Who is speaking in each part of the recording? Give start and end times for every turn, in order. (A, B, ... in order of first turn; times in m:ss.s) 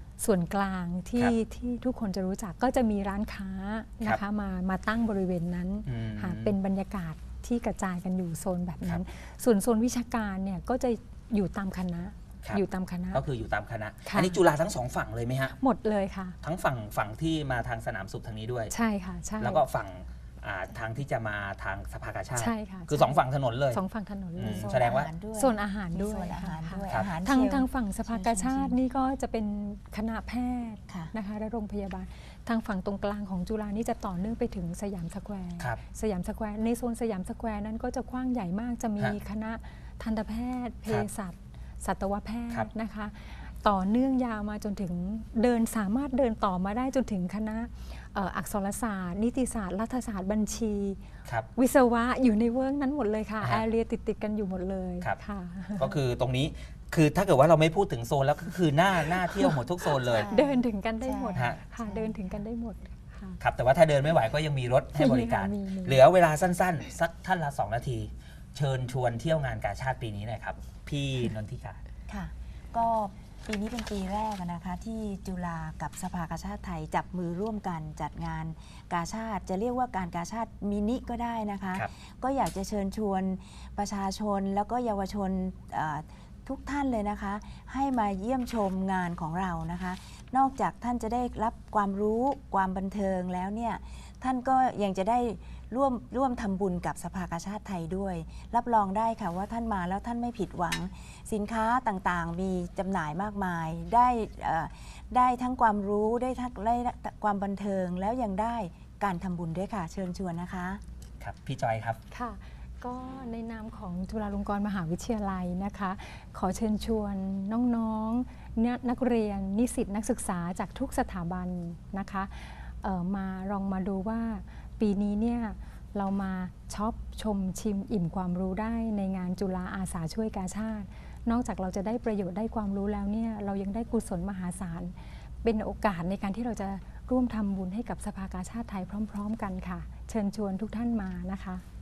0:00.2-0:13.2 A
0:05.8-0:06.6 B
0:12.4-0:15.5 B
0:14.0-0:14.4 A
0:15.6-0:16.4 A
0:16.4-0:18.7 B
0:18.7-0:19.6 A
0:19.4-0:23.8 B
0:22.4-0:51.0 A
0:24.4-0:25.1 B
0:24.4-0:28.8 C
0:30.9-0:31.1 C
0:51.6-0:55.9 A
0:55.8-1:00.3 B
0:59.2-0:59.6 A
1:00.0-1:02.4 C
1:00.2-1:03.4 A
1:01.3-1:01.6 B
1:03.4-1:11.8 B
1:04.9-1:06.0 A
1:12.1-1:50.8 C
1:51.2-1:52.0 B
1:52.1-2:21.6 A